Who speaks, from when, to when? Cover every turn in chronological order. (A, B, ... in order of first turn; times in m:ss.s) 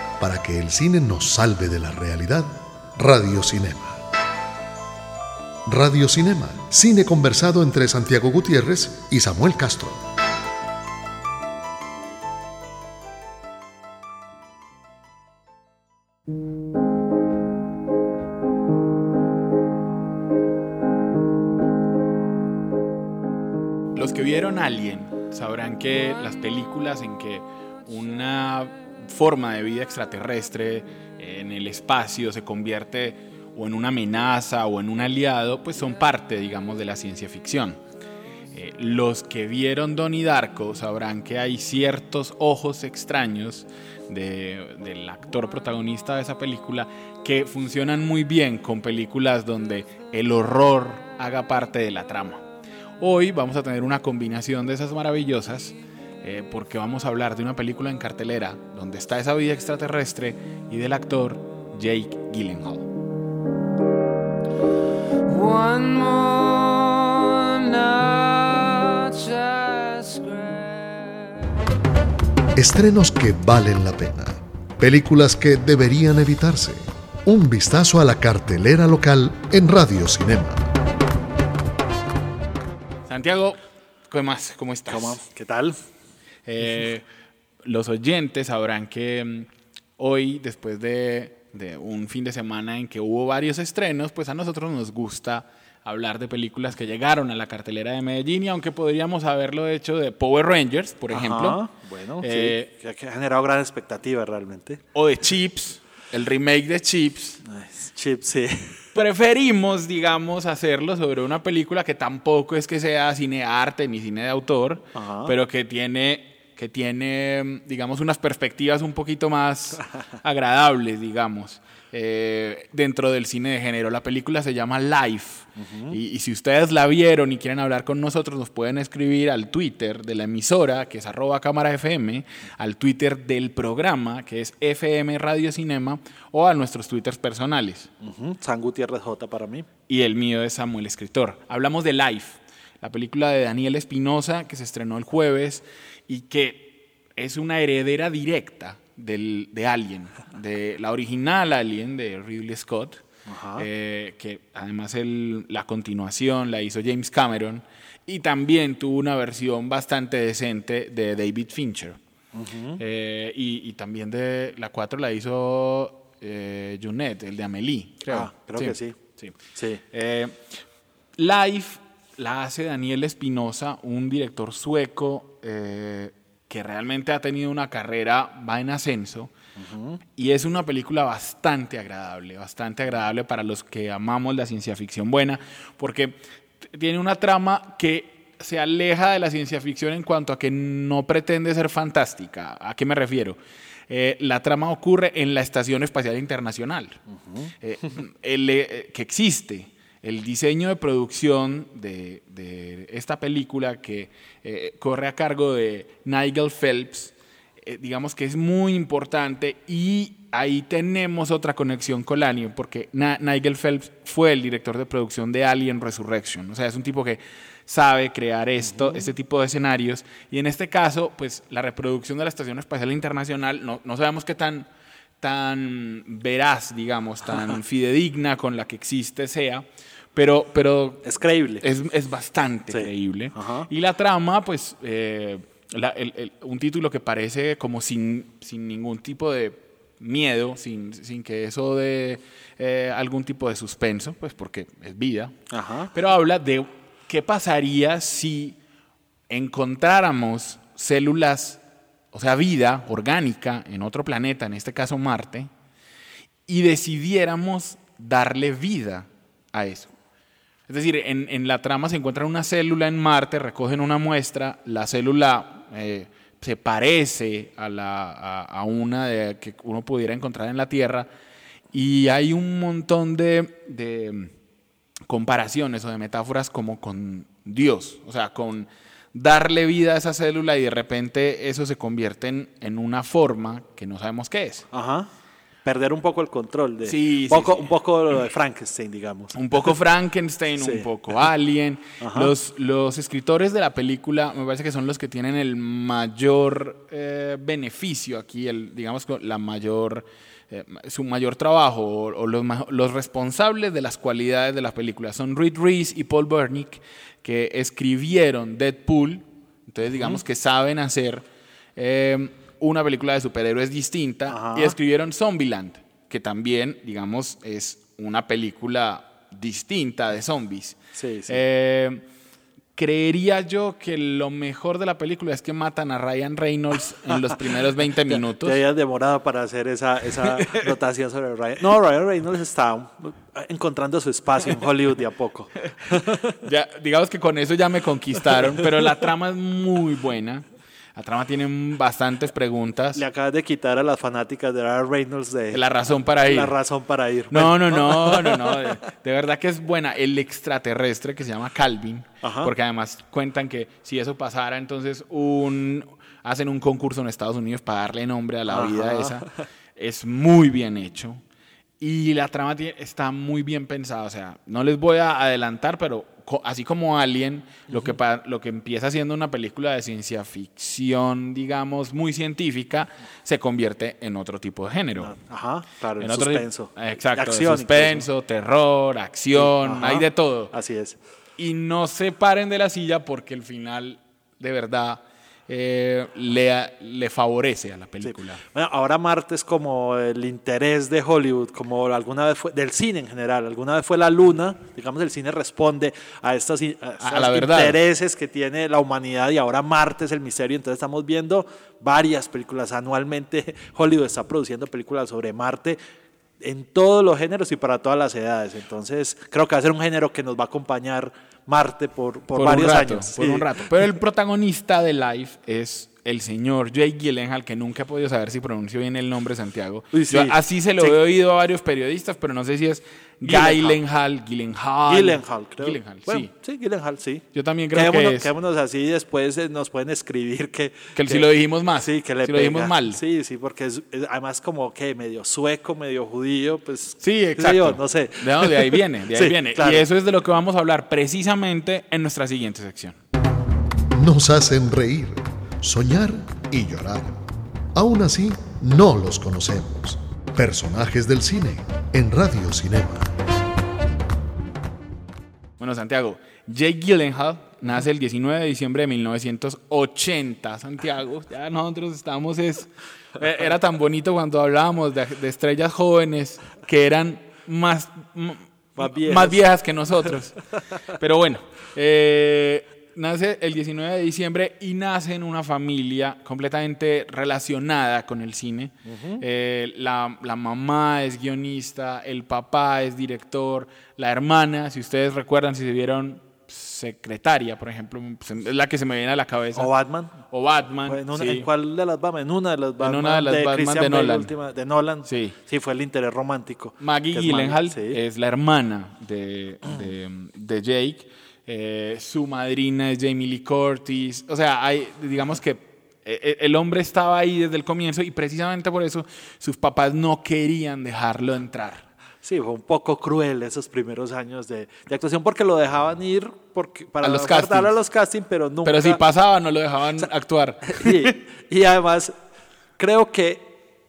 0:00.2-0:04.0 A
0:05.7-0:10.0 A
0:23.9-0:37.8 B
0:38.5-0:52.4 B
0:53.0-1:02.9 B
1:05.3-1:11.5 C
1:12.6-1:20.7 A
1:23.1-1:25.2 B
1:24.9-1:25.8 D
1:26.4-1:27.0 B
1:27.6-1:41.6 B
1:41.1-1:44.8 D
1:42.2-1:42.7 B
1:44.9-1:47.4 B
1:47.4-1:48.9 D
1:48.9-2:17.9 B
1:54.9-1:55.3 D
2:05.6-2:06.0 D
2:18.0-2:19.7 D
2:19.9-2:33.0 B
2:33.3-2:33.7 D
2:33.6-2:42.0 B
2:42.3-2:42.8 D
2:42.8-2:49.3 B
2:48.1-2:49.0 D
2:49.5-2:49.8 D
2:49.9-2:50.6 B
2:51.2-2:59.3 B
2:59.6-3:00.0 D
3:00.2-3:13.4 B
3:13.9-3:17.0 B
3:17.2-3:17.5 D
3:17.6-3:44.7 B
3:38.8-3:39.0 D
3:45.2-3:51.0 B
3:51.0-3:51.6 D
3:51.6-4:05.4 B
3:52.7-3:53.7 D
4:05.5-4:05.9 D
4:05.9-4:08.5 B
4:09.3-4:11.6 B
4:12.1-4:15.5 B
4:16.5-4:19.9 B
4:20.7-4:31.1 B
4:31.7-4:34.3 B
4:35.1-4:44.7 B
4:44.7-4:45.1 D
4:45.6-4:49.7 D
4:46.8-4:47.7 B
4:49.3-5:11.2 B
4:50.6-4:50.9 D
4:52.0-4:52.3 D
5:11.8-5:22.0 B
5:14.3-5:14.8 D
5:21.0-5:21.4 D
5:22.7-5:28.6 B
5:28.1-5:36.3 D
5:30.3-5:30.7 B
5:35.9-5:43.0 B
5:42.9-5:45.6 D
5:45.5-5:46.5 B
5:46.2-5:48.7 D
5:47.3-6:01.2 B
5:52.2-5:52.5 D
5:58.5-5:59.4 D
6:01.8-6:15.2 B
6:07.7-6:07.9 D
6:15.0-6:18.0 D
6:16.0-6:20.5 B
6:19.3-6:21.0 D
6:21.4-6:28.4 B
6:28.0-6:45.8 D
6:37.0-6:37.8 B
6:46.4-6:53.5 D
6:52.3-7:06.3 B
6:59.9-7:01.0 D
7:03.2-7:03.8 D
7:04.9-7:11.3 D
7:07.3-7:08.3 B
7:10.9-7:13.0 B
7:11.8-7:19.8 D
7:17.0-7:23.0 B
7:23.9-7:27.2 A
7:27.7-7:33.1 A
7:35.6-8:09.7 B
7:48.8-7:49.4 D
7:58.8-7:59.2 D
8:09.6-8:10.2 D
8:10.3-8:11.4 B
8:10.8-8:18.0 D
8:12.8-8:14.3 B
8:15.0-8:15.4 B
8:16.8-8:31.8 B
8:32.2-8:39.0 D
8:37.0-8:37.7 B
8:38.6-8:41.1 B
8:40.7-8:42.1 D
8:42.8-8:43.5 D